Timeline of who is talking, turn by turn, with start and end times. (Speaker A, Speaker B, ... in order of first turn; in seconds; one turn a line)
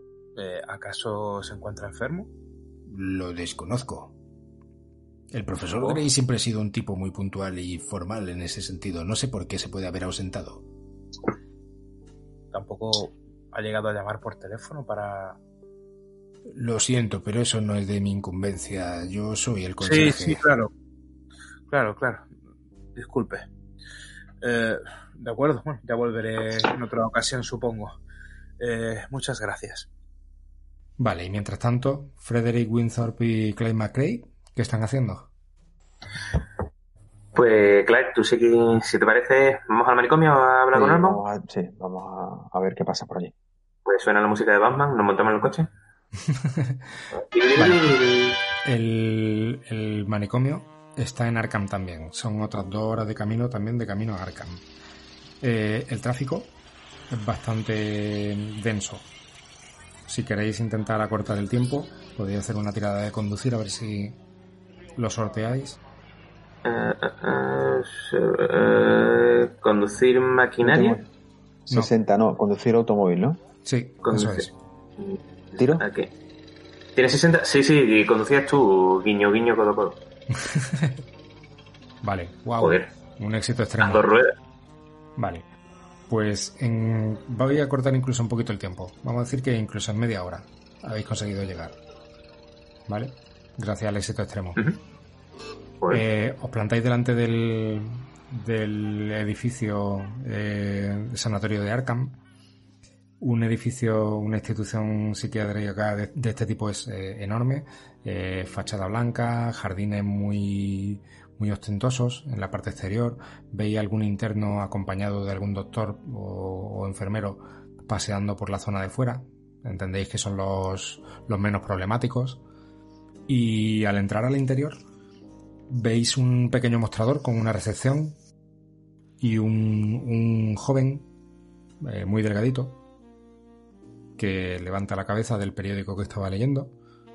Speaker A: 0.3-2.3
Speaker B: 2.9-4.1
Speaker B: 5.3-10.6
Speaker A: 5.8-6.0
Speaker A: 12.5-15.4
Speaker B: 16.5-20.4
Speaker A: 19.8-20.7
Speaker A: 21.7-22.3
Speaker A: 22.9-23.5
Speaker A: 24.4-27.9
Speaker A: 28.6-29.9
Speaker C: 31.0-35.3
Speaker D: 37.3-41.2
Speaker E: 40.7-43.3
Speaker D: 43.9-45.7
Speaker D: 47.1-48.4
Speaker C: 47.5-47.9
Speaker C: 48.6-54.6
Speaker C: 55.4-56.5
Speaker C: 57.1-59.0
Speaker C: 60.1-64.2
Speaker C: 65.0-65.8
Speaker D: 66.6-71.0
Speaker E: 70.6-71.0
Speaker E: 71.7-73.4
Speaker C: 73.6-74.5
Speaker D: 74.0-76.1
Speaker E: 75.6-75.8
Speaker D: 77.0-80.0
Speaker C: 82.0-84.2
Speaker D: 82.6-82.9
Speaker D: 83.8-84.3
Speaker C: 85.2-85.5
Speaker C: 86.1-91.8
Speaker C: 92.9-94.6
Speaker C: 95.9-102.2
Speaker C: 103.2-122.4
Speaker C: 123.3-124.8
Speaker C: 125.7-128.2
Speaker C: 129.2-131.1
Speaker C: 131.8-132.8
Speaker C: 134.2-136.8